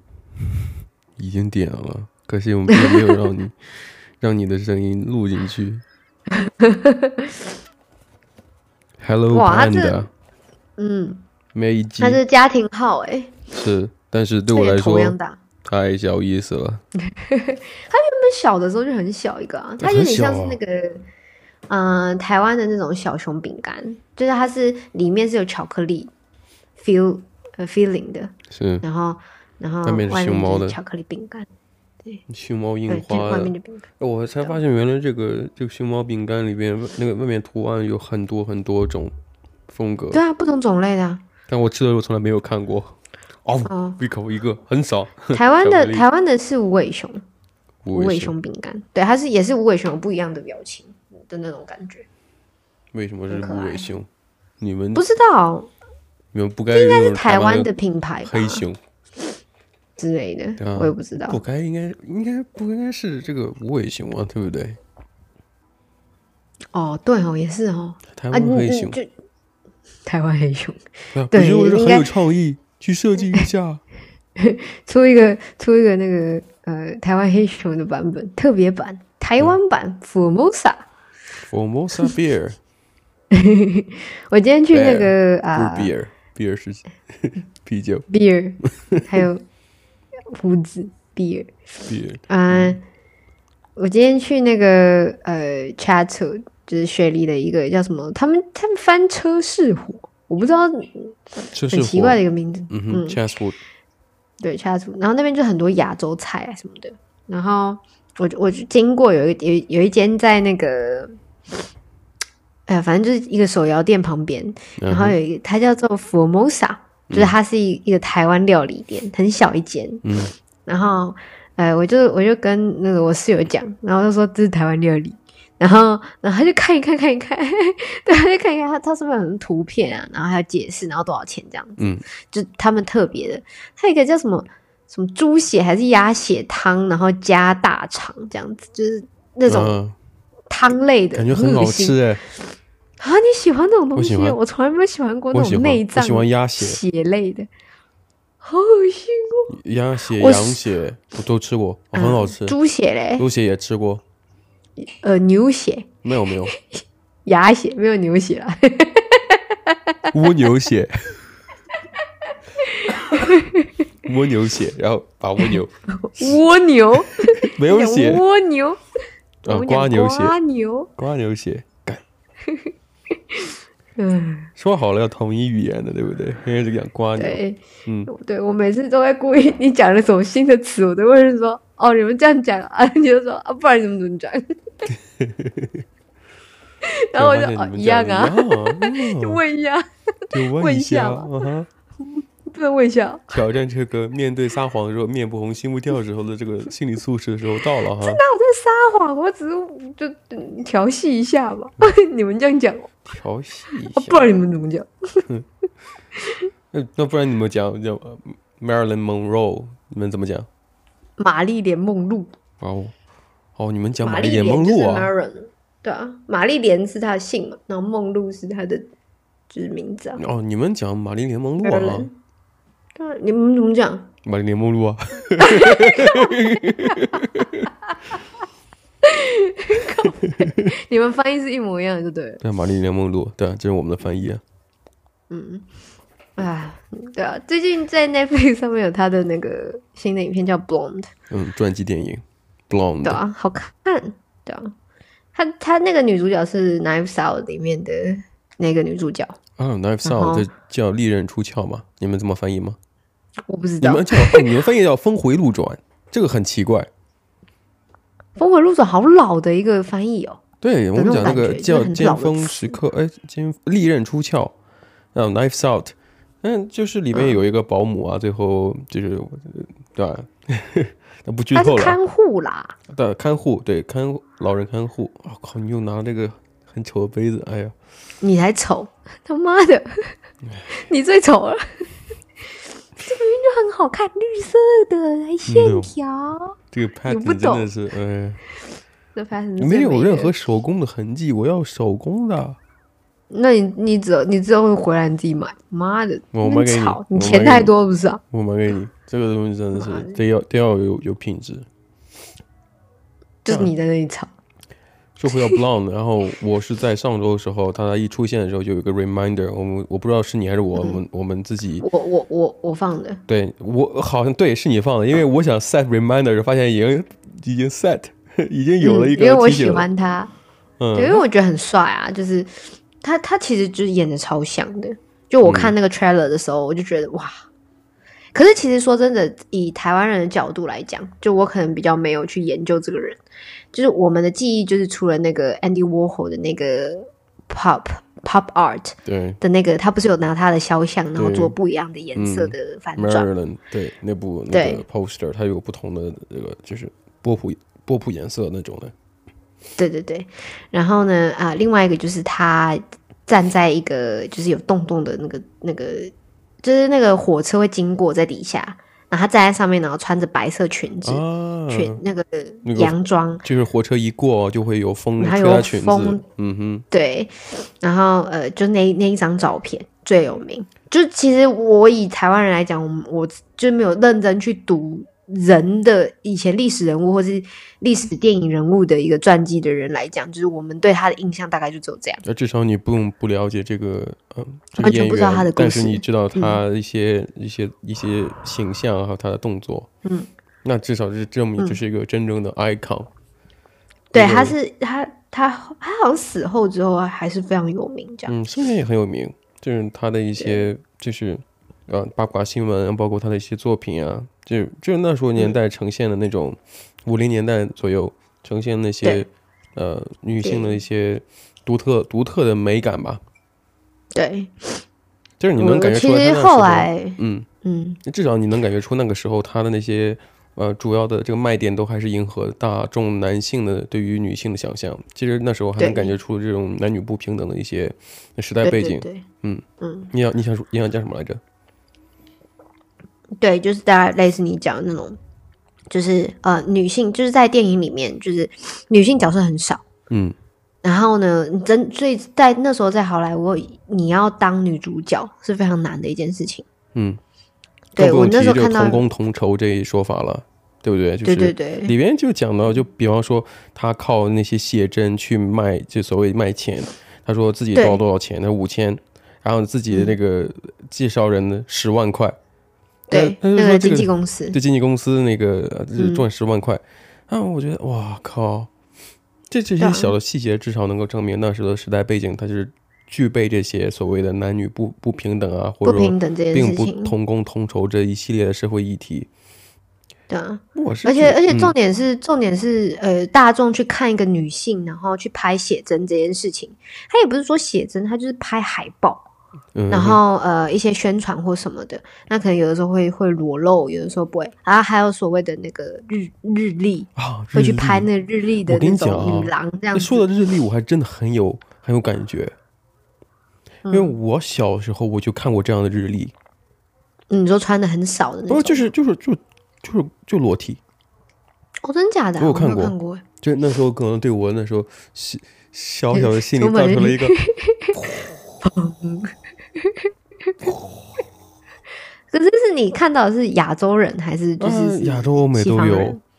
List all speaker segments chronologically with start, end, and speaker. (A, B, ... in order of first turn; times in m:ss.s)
0:01.2-0:05.8 A
0:02.7-0:03.2 B
0:06.3-0:07.4 B
0:09.0-0:10.1 A
0:09.3-0:10.0 B
0:10.8-0:11.2 B
0:11.5-0:12.2 A
0:12.0-0:13.4 B
0:13.5-0:16.8 A
0:14.5-0:15.4 B
0:17.1-0:21.0 B
0:19.8-0:20.6 A
0:21.7-0:26.1 B
0:26.8-0:31.5 B
0:28.5-0:28.8 A
0:29.8-0:30.8 A
0:32.3-0:39.1 A
0:32.9-0:33.8 B
0:39.7-0:40.2 A
0:40.1-0:41.2 B
0:41.5-0:46.0 A
0:43.7-0:44.0 B
0:45.3-0:47.2 B
0:47.8-0:48.3 A
0:47.9-0:52.0 B
0:52.9-0:54.1 A
0:53.3-0:53.9 B
0:54.6-0:55.0 A
0:55.0-0:55.7 B
0:56.3-0:57.7 A
0:56.7-0:58.6 B
0:58.2-0:58.8 A
1:00.0-1:01.4 B
1:00.6-1:04.8 A
1:06.7-1:09.1 B
1:08.1-1:09.0 A
1:10.1-1:12.1 B
1:11.2-1:13.8 A
1:14.4-1:20.8 B
1:21.4-1:22.6 A
1:23.3-1:25.9 B
1:24.7-1:28.1 A
1:28.1-1:29.4 B
1:28.6-1:29.2 A
1:30.3-1:31.5 B
1:31.9-1:32.8 A
1:32.3-1:32.8 B
1:33.8-1:43.2 B
1:41.5-1:43.6 A
1:44.4-1:51.2 B
1:52.7-2:00.0 B
1:54.8-1:55.2 A
1:57.1-1:57.4 A
2:00.0-2:00.3 A
2:00.7-2:19.8 B
2:11.8-2:12.0 A
2:19.5-2:20.0 A
2:20.5-2:22.0 B
2:21.2-2:22.2 A
2:23.0-2:27.5 B
2:24.0-2:24.4 A
2:25.3-2:26.8 A
2:28.4-2:29.5 B
2:29.5-2:32.6 A
2:30.2-2:30.6 B
2:31.9-2:33.3 B
2:33.2-2:34.0 A
2:34.8-2:36.0 B
2:36.0-2:36.5 A
2:36.5-2:40.5 B
2:40.1-2:41.2 A
2:42.6-2:43.8 B
2:44.0-2:46.4 A
2:45.4-2:48.8 B
2:46.9-2:48.2 A
2:49.4-2:50.4 A
2:49.5-2:50.9 B
2:51.0-2:52.0 A
2:52.4-2:54.5 B
2:54.6-2:58.1 A
2:57.2-3:04.6 B
3:04.9-3:05.8 A
3:06.8-3:11.5 B
3:07.2-3:09.4 A
3:10.3-3:11.7 A
3:12.5-3:13.4 B
3:13.3-3:18.2 A
3:18.0-3:23.0 B
3:23.1-3:24.3 A
3:23.9-3:25.3 B
3:26.2-3:26.5 B
3:26.7-3:30.5 A
3:31.2-3:32.3 B
3:32.6-3:32.9 A
3:33.6-3:35.1 A
3:34.0-3:38.9 B
3:39.5-3:40.2 B
3:40.2-3:42.1 A
3:41.6-3:42.1 B
3:43.0-3:44.1 B
3:44.2-3:47.7 A
3:45.4-3:47.2 B
3:47.9-3:48.2 B
3:49.0-3:52.4 B
3:52.4-3:54.4 A
3:55.3-3:55.7 B
3:56.4-4:01.1 B
4:01.3-4:03.2 A
4:03.0-4:04.7 B
4:05.4-4:09.4 B
4:09.6-4:12.8 A
4:10.0-4:10.5 B
4:13.5-4:14.5 B
4:13.8-4:16.9 A
4:18.4-4:20.4 B
4:20.6-4:24.6 A
4:21.0-4:22.8 B
4:25.1-4:32.0 A
4:27.1-4:27.4 B
4:31.6-4:32.8 B
4:32.9-4:37.8 A
4:38.2-4:40.2 B
4:40.7-4:41.9 B
4:43.0-4:47.7 B
4:45.5-4:45.9 A
4:46.7-4:48.4 A
4:49.2-4:50.3 B
4:49.6-4:52.6 A
4:53.3-4:58.2 B
4:56.3-4:57.7 A
4:58.3-5:01.7 A
4:59.7-5:00.2 B
5:03.4-5:04.3 B
5:03.5-5:03.7 A
5:05.2-5:11.8 A
5:11.8-5:13.2 B
5:13.3-5:19.9 A
5:18.8-5:20.3 B
5:20.8-5:21.2 A
5:21.0-5:27.5 B
5:25.4-5:25.7 A
5:28.3-5:33.2 B
5:33.7-5:43.3 B
5:39.1-5:39.4 A
5:41.2-5:41.5 A
5:42.2-5:48.9 A
5:44.5-5:44.8 B
5:49.8-6:03.4 B
6:01.0-6:02.0 A
6:02.6-6:06.9 A
6:05.2-6:06.2 B
6:06.9-6:22.2 B
6:22.2-6:29.9 A
6:24.8-6:26.6 B
6:30.6-6:33.1 A
6:34.1-6:34.6 A
6:34.1-6:38.3 B
6:38.3-6:53.2 A
6:50.4-6:50.8 B
6:54.1-6:54.8 B
6:55.4-6:57.5 A
6:55.6-6:58.0 B
6:58.0-7:11.4 A
7:05.8-7:06.1 B
7:08.6-7:09.2 B
7:09.8-7:10.1 B
7:13.4-7:15.2 B
7:15.9-7:19.8 B
7:20.1-7:20.4 A
7:20.8-7:26.7 B
7:27.0-7:27.2 A
7:28.0-7:29.0 B
7:28.0-7:42.4 A
7:31.2-7:31.9 B
7:37.8-7:38.0 B
7:43.1-7:44.6 B
7:43.1-7:48.7 A
7:46.0-7:46.2 B
7:49.5-7:59.3 A
7:49.8-7:50.1 B
7:55.8-7:57.1 B
8:00.3-8:09.3 B
8:00.8-8:01.7 A
8:09.8-8:10.2 A
8:09.9-8:20.3 B
8:17.2-8:18.1 A
8:18.6-8:22.5 A
8:23.8-8:24.2 B
8:23.9-8:26.3 A
8:27.3-8:28.9 B
8:28.5-8:30.8 A
8:31.8-8:33.2 B
8:32.4-8:37.4 A
8:36.1-8:38.1 B
8:38.6-8:40.7 B
8:42.3-8:46.2 B
8:44.6-8:46.2 A